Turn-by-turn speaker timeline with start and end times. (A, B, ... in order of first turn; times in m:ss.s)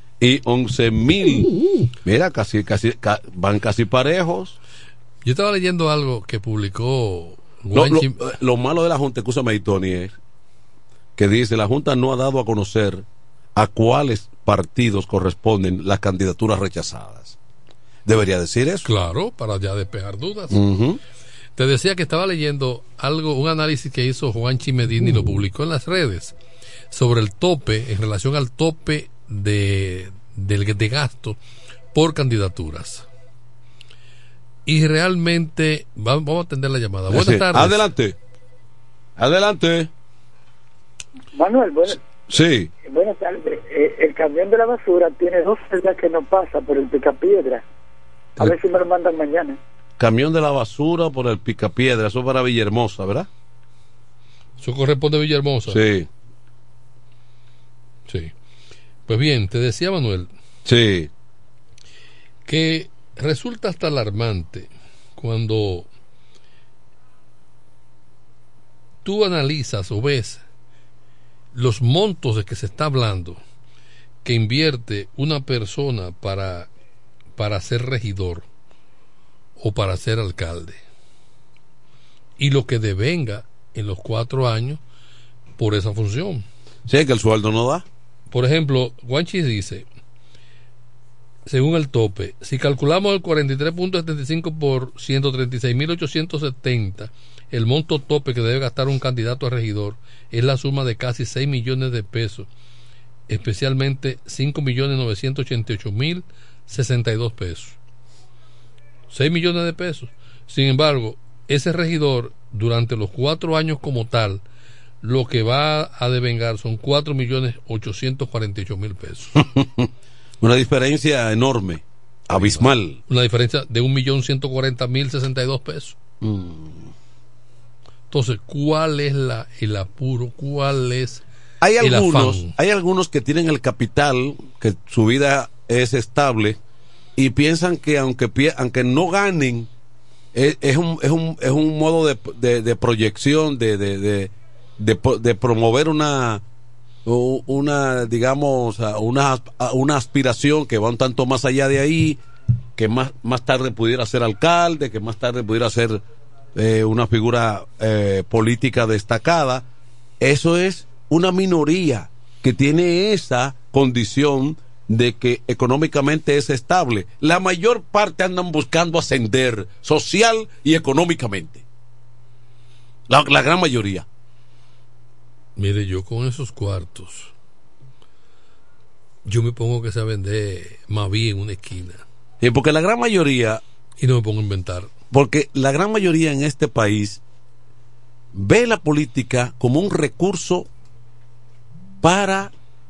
0:00.2-0:01.5 A
0:02.0-0:04.6 A
0:05.2-0:08.2 B
0:07.7-0:10.2 A
0:11.2-0:17.4 A
0:18.0-0:18.9 A
0:18.8-0:20.6 B
0:20.5-0:21.0 A
0:21.6-0:26.4 B
0:26.9-0:31.4 B
0:31.9-0:33.0 B
0:34.6-0:37.9 B
0:37.1-0:38.2 A
0:39.2-0:39.9 A
0:41.3-0:42.0 C
0:42.3-0:42.7 A
0:42.8-0:47.6 C
0:48.4-0:49.6 C
0:50.0-0:53.3 A
0:54.6-0:55.8 B
0:55.6-0:56.1 A
0:58.1-0:58.3 B
0:59.1-1:00.3 B
1:00.6-1:01.1 A
1:02.4-1:05.9 B
1:09.0-1:10.4 B
1:11.5-1:13.4 B
1:14.2-1:16.7 B
1:17.4-1:18.5 B
1:19.6-1:20.8 B
1:22.4-1:24.8 B
1:25.6-1:26.4 B
1:26.9-1:27.8 A
1:28.3-1:29.8 B
1:31.4-1:42.5 B
1:43.3-1:47.8 B
1:49.1-1:54.4 B
1:55.0-1:59.4 B
1:59.6-1:59.9 A
2:00.4-2:03.0 A
2:02.3-2:06.0 B
2:06.2-2:06.9 A
2:08.1-2:11.2 B
2:11.6-2:16.6 A
2:11.8-2:12.5 B
2:17.2-2:19.7 A
2:20.3-2:26.4 A
2:27.0-2:32.2 A
2:32.8-2:36.0 A
2:36.5-2:39.6 A
2:40.2-2:51.6 A
2:53.1-2:54.0 A
2:55.6-2:57.3 B
2:59.2-3:02.0 B
3:02.4-3:03.6 A
3:04.0-3:04.9 B
3:05.1-3:07.2 A
3:08.3-3:10.7 A
3:12.0-3:12.5 A